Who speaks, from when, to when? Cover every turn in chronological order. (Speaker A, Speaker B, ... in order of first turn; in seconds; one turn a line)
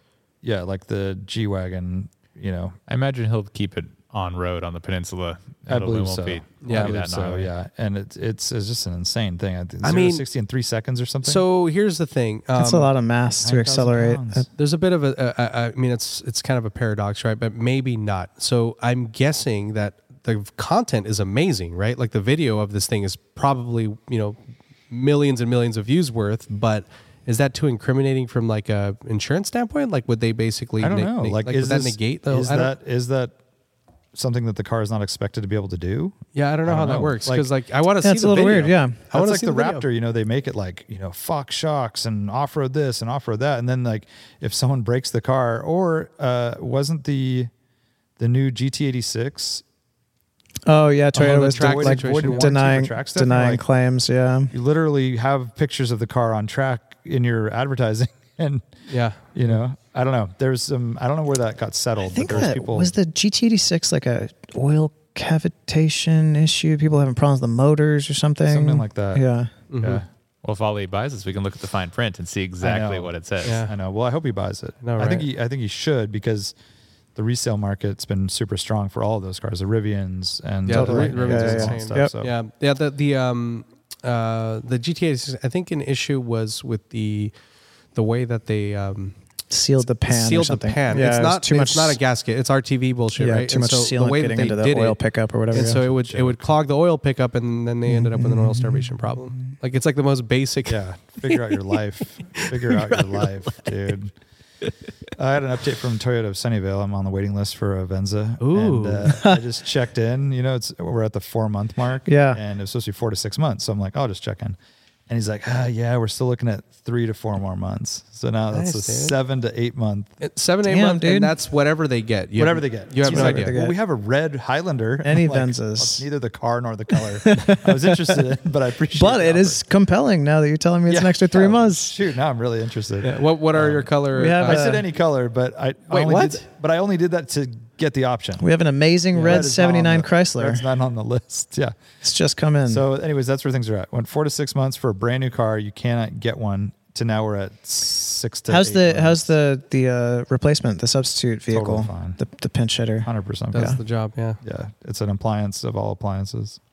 Speaker A: 0.4-2.8
Speaker B: 2.9-7.5
Speaker A: 5.7-11.4
Speaker C: 6.6-6.9
Speaker C: 9.8-10.2
Speaker C: 11.2-12.9
Speaker D: 12.6-14.5
Speaker A: 13.4-14.4
Speaker C: 14.6-24.4
Speaker C: 24.9-32.7
Speaker A: 30.8-33.3
Speaker A: 34.1-37.5
Speaker C: 36.3-39.9
Speaker D: 38.0-39.0
Speaker A: 39.1-47.5
Speaker A: 48.2-49.6
Speaker D: 50.6-54.5
Speaker C: 51.1-52.5
Speaker A: 51.2-53.6
Speaker A: 54.5-58.6
Speaker C: 58.9-59.2
Speaker A: 59.3-62.9
Speaker D: 62.0-69.5
Speaker A: 68.5-69.2
Speaker C: 69.7-70.0
Speaker A: 69.8-70.0
Speaker B: 70.4-73.5
Speaker A: 72.6-76.5
Speaker C: 73.4-73.7
Speaker C: 74.8-75.3
Speaker A: 77.1-82.3
Speaker C: 80.6-87.3
Speaker D: 80.7-82.1
Speaker C: 87.9-89.1
Speaker D: 89.5-92.0
Speaker C: 90.0-95.0
Speaker D: 93.2-95.8
Speaker C: 95.5-103.6
Speaker A: 95.5-96.5
Speaker D: 97.9-98.8
Speaker A: 100.7-104.1
Speaker A: 105.2-114.6
Speaker C: 108.4-109.2
Speaker D: 109.1-109.4
Speaker D: 112.0-112.4
Speaker A: 115.1-120.1
Speaker C: 118.5-119.2
Speaker C: 120.2-123.5
Speaker D: 120.6-121.3
Speaker A: 122.4-129.6
Speaker D: 123.0-123.7
Speaker D: 125.0-126.0
Speaker D: 126.9-128.2
Speaker D: 128.9-131.9
Speaker A: 130.9-138.5
Speaker C: 133.0-134.8
Speaker D: 134.1-134.8
Speaker C: 135.9-136.4
Speaker D: 138.4-140.6
Speaker C: 139.2-139.4
Speaker A: 139.2-141.8
Speaker D: 142.0-142.8
Speaker A: 142.7-149.3
Speaker D: 148.5-153.8
Speaker A: 151.5-152.2
Speaker A: 153.0-153.8
Speaker C: 153.5-154.4
Speaker A: 154.4-156.6